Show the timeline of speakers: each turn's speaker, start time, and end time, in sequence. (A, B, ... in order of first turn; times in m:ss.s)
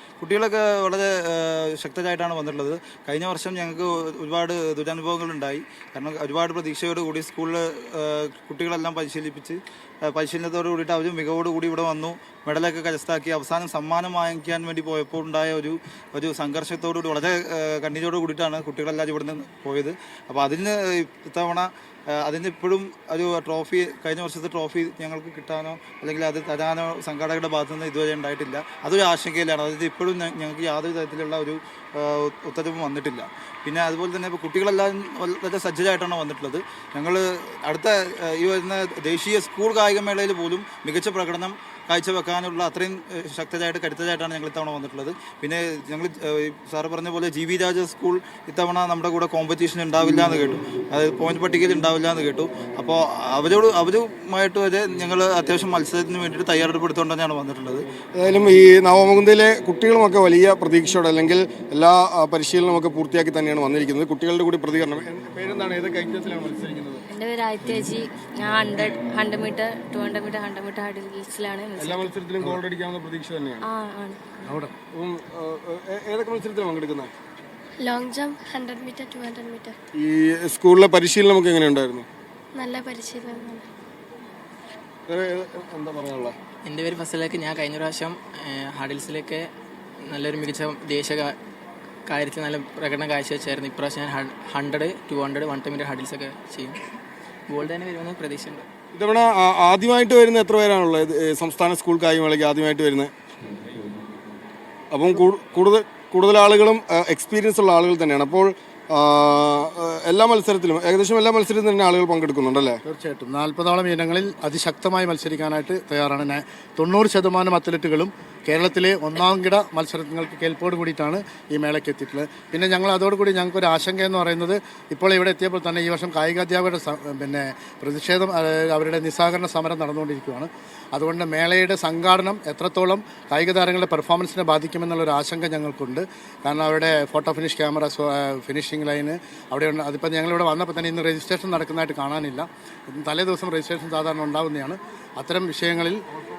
0:00.2-0:57.9 A
0:58.2-1:07.0 B
1:07.1-1:12.2 C
1:11.8-1:13.7 B
1:13.6-1:14.4 C
1:14.4-1:14.7 D
1:14.9-1:17.1 B
1:17.8-1:19.8 E
1:20.0-1:22.1 B
1:22.6-1:23.7 E
1:25.1-1:26.4 B
1:26.6-1:29.5 F
1:30.0-1:31.4 F
1:32.1-1:36.8 F
1:37.5-1:38.7 F
1:38.9-1:43.1 B
1:44.9-1:52.8 B
1:52.9-2:26.0 D